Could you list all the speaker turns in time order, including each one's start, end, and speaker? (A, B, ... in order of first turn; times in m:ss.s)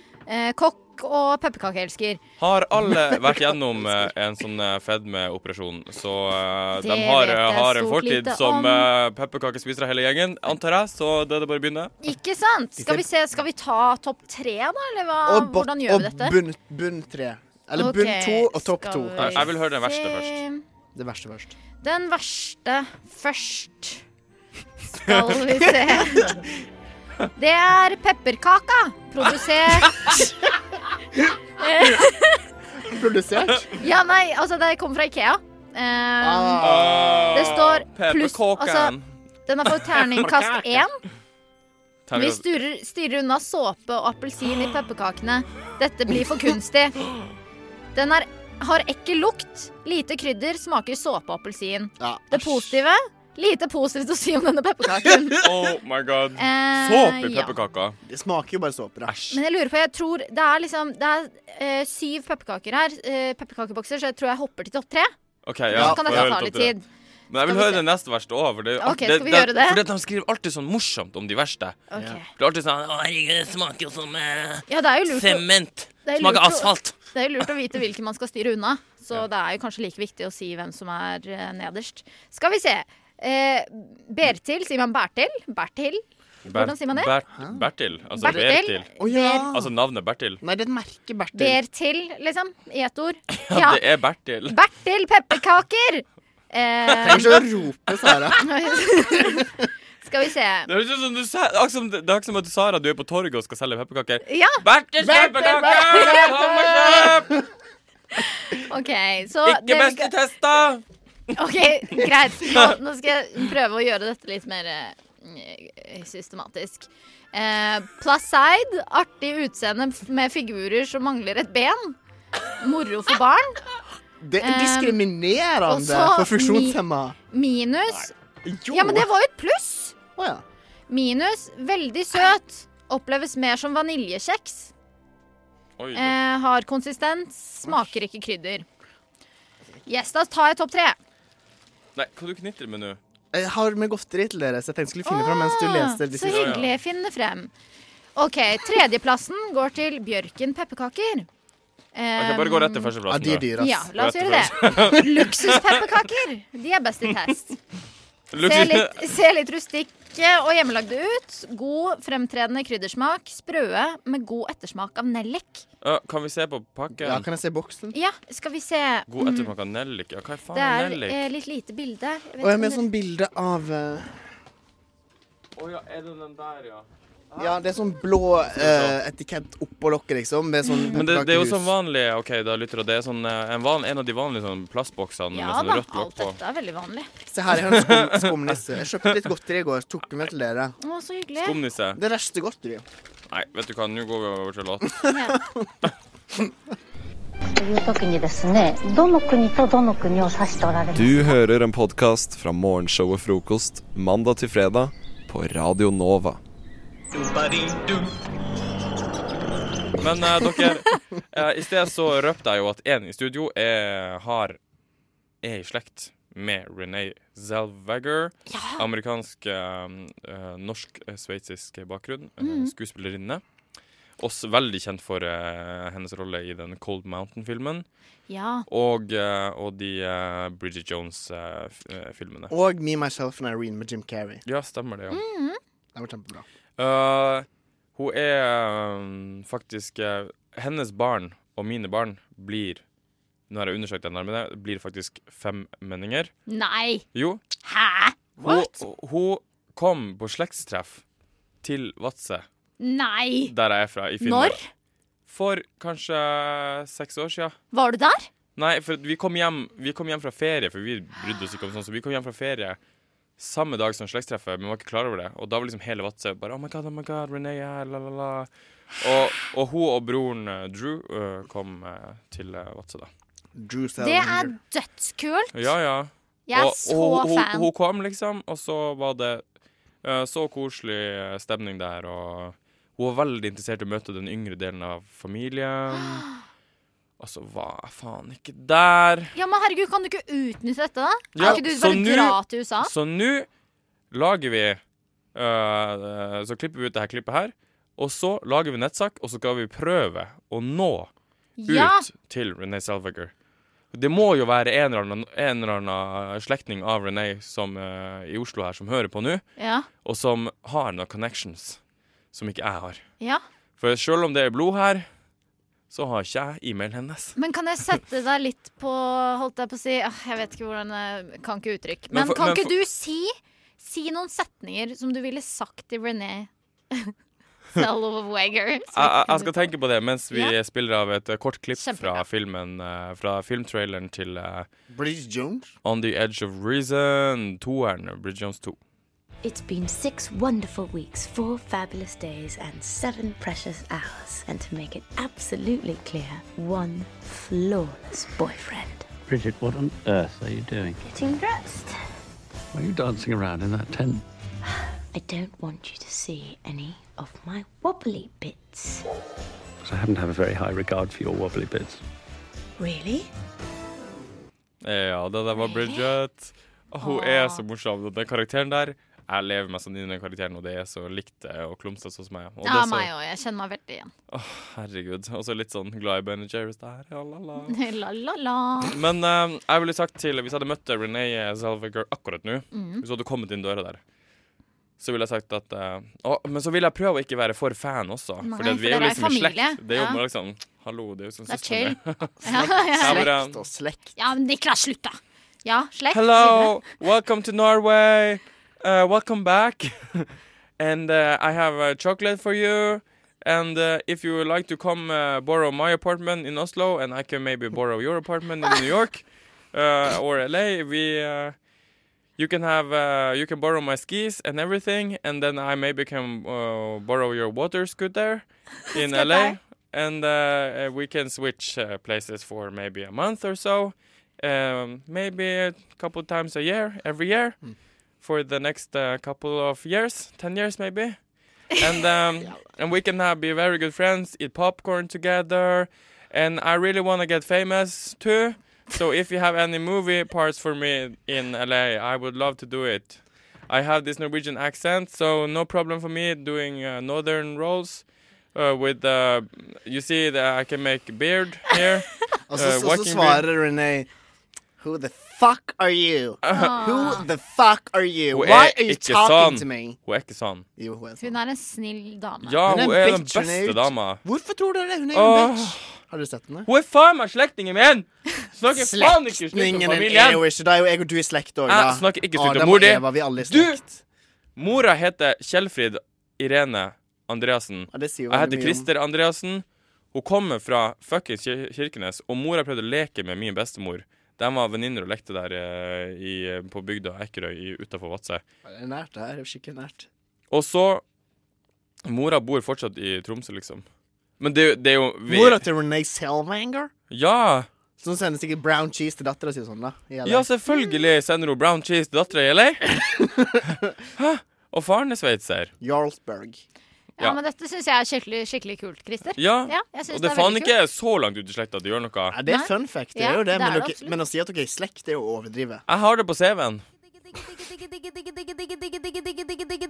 0:00.3-0:02.2 A
0:02.4-0:11.9 B
0:06.8-0:08.9 A
0:12.0-0:16.4 A
0:12.8-0:13.0 C
0:15.2-0:19.4 C
0:17.8-0:20.6 A
0:19.2-0:20.4 B
0:20.9-0:21.6 C
0:21.8-0:24.0 A
0:24.9-0:26.4 A
0:27.4-0:30.1 A
0:31.6-0:31.9 A
0:32.9-0:33.7 C
0:33.8-0:36.6 A
0:36.2-0:37.3 C
0:36.6-0:40.5 B
0:37.3-0:38.9 A
0:39.4-0:41.0 A
0:42.1-0:42.5 B
0:42.1-0:47.0 A
0:47.9-0:55.4 A
0:52.0-0:52.8 C
0:54.8-0:55.7 C
0:55.4-0:58.0 B
0:56.4-0:57.6 A
0:58.0-0:59.2 C
0:59.1-0:59.4 B
0:59.3-1:05.1 A
1:05.4-1:06.7 B
1:05.7-1:06.8 A
1:05.7-1:06.3 C
1:07.3-1:11.8 B
1:07.4-1:07.8 A
1:08.8-1:09.8 A
1:11.9-1:12.3 A
1:12.4-1:17.0 B
1:14.7-1:15.5 A
1:16.0-1:27.2 A
1:26.4-1:28.9 B
1:27.3-1:27.6 C
1:28.2-1:29.5 A
1:28.3-1:29.7 C
1:29.4-1:30.4 B
1:30.4-1:31.6 C
1:31.3-1:33.8 A
1:33.3-1:34.6 B
1:34.4-1:37.4 A
1:36.9-1:37.4 B
1:37.0-1:38.4 C
1:38.4-1:39.4 A
1:39.1-1:39.4 C
1:40.0-1:40.7 A
1:40.6-1:47.3 B
1:44.2-1:44.6 A
1:45.0-1:47.2 C
1:45.4-1:46.2 A
1:48.7-1:50.1 A
1:49.4-1:50.8 B
1:51.4-2:01.9 A
2:02.6-2:03.6 A
2:04.2-2:07.2 C
2:04.4-2:05.0 A
2:05.6-2:08.1 A
2:08.4-2:09.1 C
2:08.7-2:10.0 A
2:10.1-2:10.4 C
2:10.9-2:14.7 A
2:15.8-2:16.2 B
2:15.9-2:18.6 A
2:17.6-2:18.0 C
2:19.9-2:21.0 A
2:22.0-2:23.0 B
2:23.3-2:26.6 C
2:25.0-2:27.5 A
2:26.2-2:26.7 B
2:28.2-2:31.3 A
2:31.9-2:33.0 A
2:32.2-2:35.8 B
2:33.0-2:33.9 C
2:33.6-2:37.5 A
2:38.3-2:39.0 B
2:38.4-2:45.6 A
2:45.8-2:47.3 B
2:46.9-2:48.0 C
2:47.9-2:49.5 A
2:49.1-2:51.3 B
2:50.5-2:52.8 A
2:52.4-2:54.2 C
2:55.6-2:57.6 B
2:57.4-3:01.7 C
2:58.6-2:59.0 B
3:00.7-3:01.0 A
3:00.9-3:06.4 B
3:05.3-3:07.1 A
3:07.3-3:10.8 C
3:07.5-3:09.2 B
3:10.8-3:11.6 A
3:11.4-3:12.0 B
3:11.9-3:12.8 C
3:13.3-3:14.9 B
3:15.1-3:15.4 C
3:17.5-3:21.2 D
3:20.9-3:26.4 E
3:30.0-3:34.6 B
3:35.4-3:43.4 B
3:38.5-3:38.9 A
3:42.4-3:42.7 A
3:44.2-3:47.8 B
3:48.3-3:48.6 A
3:48.7-3:52.5 B
3:52.5-3:54.4 C
3:54.4-3:55.2 B
3:55.1-3:55.6 A
3:55.9-3:56.4 C
3:56.8-4:02.8 B
4:03.5-4:06.3 B
4:06.5-4:07.0 A
4:07.1-4:07.4 B
4:07.6-4:08.2 A
4:08.4-4:08.7 C
4:08.4-4:11.0 B
4:11.6-4:12.4 B
4:12.8-4:13.5 A
4:13.5-4:14.6 B
4:14.2-4:14.7 A
4:15.3-4:17.6 B
4:17.7-4:18.3 A
4:18.6-4:22.8 B
4:23.4-4:33.1 B
4:33.6-4:34.6 C
4:34.0-4:35.7 A
4:35.5-4:39.4 B
4:36.5-4:37.7 A
4:40.0-4:46.2 B
4:45.9-4:46.3 A
4:47.2-4:49.3 B
4:49.3-4:52.9 A
4:51.3-4:53.5 B
4:54.1-4:54.8 B
4:55.3-5:01.1 B
5:01.6-5:02.1 A
5:01.6-5:03.3 B
5:03.9-5:09.4 B
5:09.6-5:09.9 A
5:10.0-5:11.8 B
5:12.3-5:13.0 B
5:13.8-5:15.1 B
5:15.9-5:17.4 B
5:17.4-5:27.1 A
5:22.1-5:22.7 B
5:27.7-5:29.5 A
5:28.9-5:34.7 B
5:31.8-5:32.2 A
5:34.9-5:35.7 C
5:35.8-5:38.8 B
5:39.4-5:49.0 F
5:39.6-5:40.6 D
5:41.1-5:41.6 D
5:42.8-5:43.3 D
5:44.1-5:44.6 D
5:46.5-5:47.5 D
5:48.1-5:48.9 D
5:49.3-5:51.0 G
5:51.0-5:52.0 D
5:52.7-5:54.2 G
5:55.2-5:58.8 F
5:55.2-5:58.9 D
5:59.8-6:02.0 G
6:02.8-6:03.3 D
6:04.8-6:13.1 B
6:07.0-6:07.6 A
6:12.6-6:14.1 A
6:14.3-6:17.8 B
6:17.7-6:18.9 A
6:18.8-6:24.0 B
6:22.7-6:23.0 A
6:25.0-6:33.6 B
6:28.4-6:30.2 A
6:31.5-6:33.2 A
6:32.4-6:34.2 C
6:34.2-6:36.9 A
6:36.1-6:51.6 B
6:52.4-7:07.6 B
6:59.0-6:59.5 A
7:08.2-7:11.2 B
7:11.8-7:33.5 B
7:32.5-7:34.1 C
7:34.8-7:40.0 C
7:36.4-7:37.1 B
7:36.5-7:37.2 A
7:38.3-7:40.6 B
7:40.8-7:41.3 C
7:41.2-7:42.6 A
7:42.4-7:44.2 B
7:42.6-7:46.7 C
7:45.1-7:46.0 B
7:46.6-7:50.4 B
7:48.7-7:54.0 C
7:51.7-7:53.8 B
7:54.6-8:08.4 B
7:57.9-7:58.9 C
8:08.6-8:10.1 C
8:10.5-8:11.0 B
8:12.0-8:13.8 B
8:14.4-8:15.6 B
8:15.2-8:16.9 C
8:17.1-8:17.7 B
8:18.0-8:20.5 C
8:20.2-8:22.9 B
8:24.2-8:25.7 B
8:25.8-8:26.6 C
8:27.2-8:30.7 A
8:29.4-8:32.4 B
8:32.3-8:35.8 C
8:32.4-8:34.2 A
8:35.9-8:36.8 B